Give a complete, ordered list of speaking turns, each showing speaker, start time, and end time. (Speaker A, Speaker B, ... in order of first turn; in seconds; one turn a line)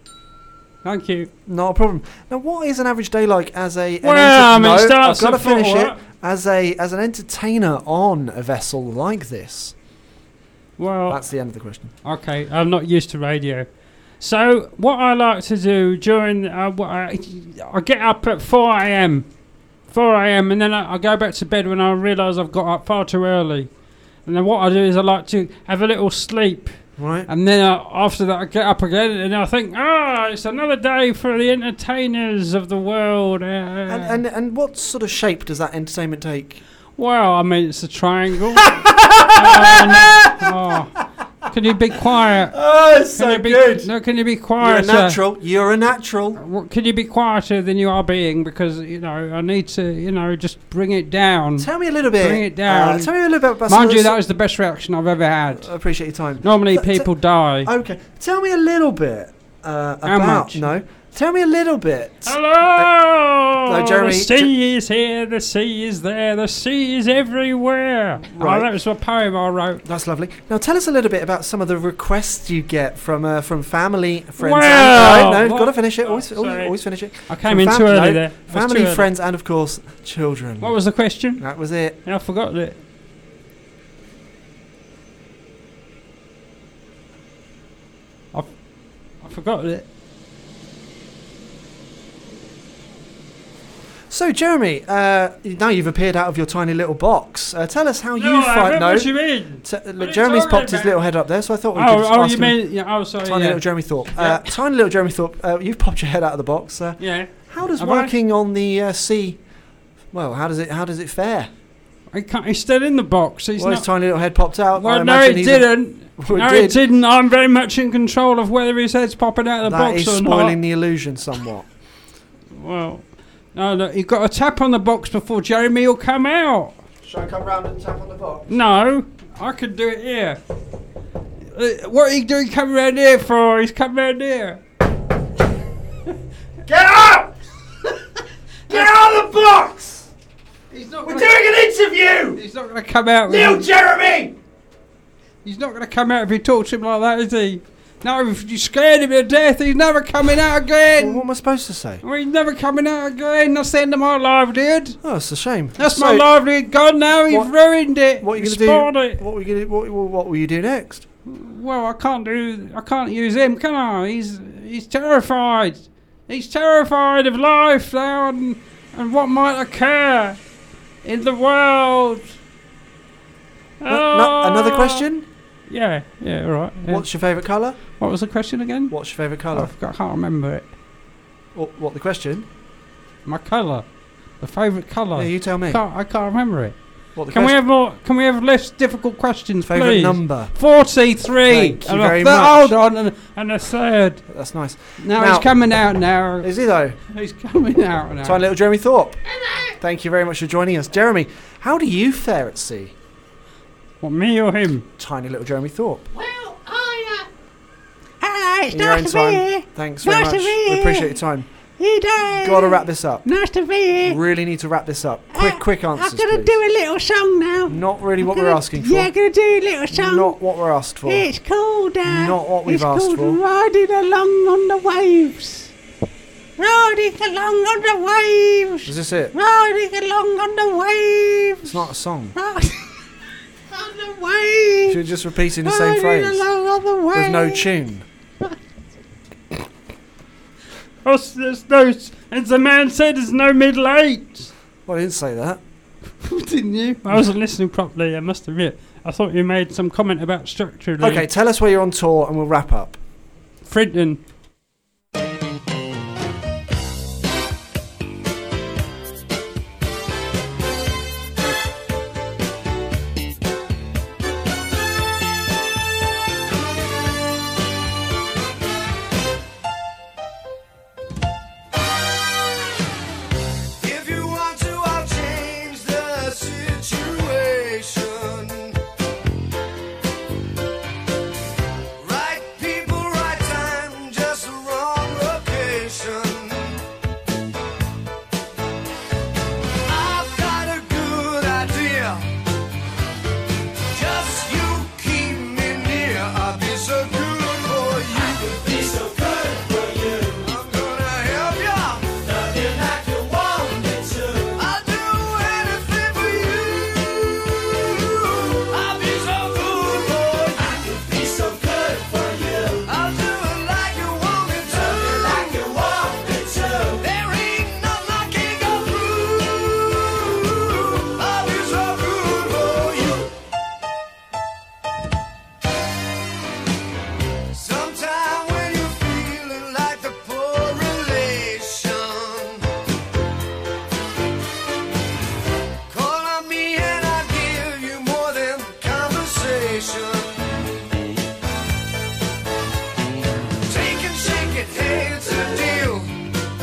Speaker A: 0.8-1.3
Speaker B: 1.5-9.7
Speaker A: 4.0-6.0
Speaker A: 10.8-11.2
Speaker B: 11.1-11.9
Speaker A: 12.0-13.7
Speaker A: 14.2-19.3
Speaker A: 19.9-23.7
Speaker A: 24.2-26.8
Speaker B: 27.0-27.3
Speaker A: 27.3-34.2
Speaker B: 33.9-36.6
Speaker A: 37.0-38.8
Speaker B: 38.5-40.5
Speaker A: 39.3-41.0
Speaker A: 41.5-42.5
Speaker B: 42.5-43.9
Speaker A: 43.1-45.2
Speaker B: 44.6-46.4
Speaker A: 46.4-53.1
Speaker B: 51.6-54.2
Speaker A: 53.7-55.7
Speaker B: 55.6-57.1
Speaker A: 56.4-57.7
Speaker B: 57.6-62.9
Speaker A: 60.0-60.6
Speaker A: 62.2-69.8
Speaker B: 63.6-64.5
Speaker B: 68.3-68.7
Speaker B: 69.8-80.8
Speaker A: 74.4-76.7
Speaker A: 77.3-79.0
Speaker A: 80.6-81.4
Speaker B: 81.4-82.0
Speaker A: 82.0-82.8
Speaker A: 89.2-89.8
Speaker B: 94.1-102.6
Speaker A: 98.2-101.0
Speaker A: 101.7-103.6
Speaker B: 103.2-109.4
Speaker A: 104.2-104.4
Speaker A: 107.0-108.1
Speaker B: 110.1-111.5
Speaker A: 112.1-113.8
Speaker B: 113.6-116.8
Speaker A: 114.7-120.5
Speaker B: 119.6-121.7
Speaker A: 122.5-126.8
Speaker B: 127.0-128.4
Speaker A: 128.5-130.4
Speaker A: 131.5-134.6
Speaker B: 136.7-137.3
Speaker B: 138.7-140.1
Speaker A: 140.7-141.4
Speaker B: 141.0-142.4
Speaker A: 142.3-143.7
Speaker B: 143.3-144.3
Speaker A: 145.4-151.2
Speaker B: 151.0-152.0
Speaker A: 152.0-155.0
Speaker B: 155.0-156.3
Speaker A: 155.8-159.2
Speaker B: 158.2-161.0
Speaker A: 161.2-170.4
Speaker A: 171.0-172.3
Speaker A: 173.8-175.0
Speaker B: 173.9-175.2
Speaker A: 175.7-177.0
Speaker B: 176.8-177.8
Speaker A: 178.0-178.9
Speaker B: 178.9-179.7
Speaker A: 179.5-180.7
Speaker B: 181.5-182.5
Speaker A: 183.2-183.8
Speaker A: 184.4-186.8
Speaker B: 185.2-185.8
Speaker B: 187.2-187.6
Speaker A: 187.3-194.2
Speaker B: 189.6-190.5
Speaker B: 191.4-192.8
Speaker B: 194.3-195.5
Speaker A: 195.0-196.5
Speaker B: 196.4-197.0
Speaker A: 197.1-198.2
Speaker B: 198.2-199.2
Speaker B: 199.8-202.9
Speaker A: 204.0-204.8
Speaker B: 205.0-206.1
Speaker C: 206.2-207.2
Speaker C: 208.2-211.2
Speaker B: 208.7-211.5
Speaker C: 211.8-214.2
Speaker B: 212.2-213.3
Speaker B: 214.0-216.6
Speaker C: 215.3-220.4
Speaker B: 217.7-219.1
Speaker B: 219.9-221.3
Speaker C: 221.0-225.7
Speaker B: 222.0-223.4
Speaker C: 226.6-231.8
Speaker B: 228.8-229.3
Speaker B: 231.6-232.4
Speaker C: 232.3-232.9
Speaker C: 233.7-235.0
Speaker B: 234.9-236.5
Speaker C: 235.6-237.7
Speaker B: 237.1-238.0
Speaker A: 241.0-244.5
Speaker B: 244.8-245.6
Speaker A: 246.2-251.2
Speaker B: 251.0-253.0
Speaker A: 253.6-254.2
Speaker D: 273.8-278.8
Speaker D: 282.0-286.8
Speaker D: 289.9-292.3
Speaker D: 293.9-323.3
Speaker D: 327.5-332.6
Speaker D: 335.9-340.4
Speaker D: 343.6-346.1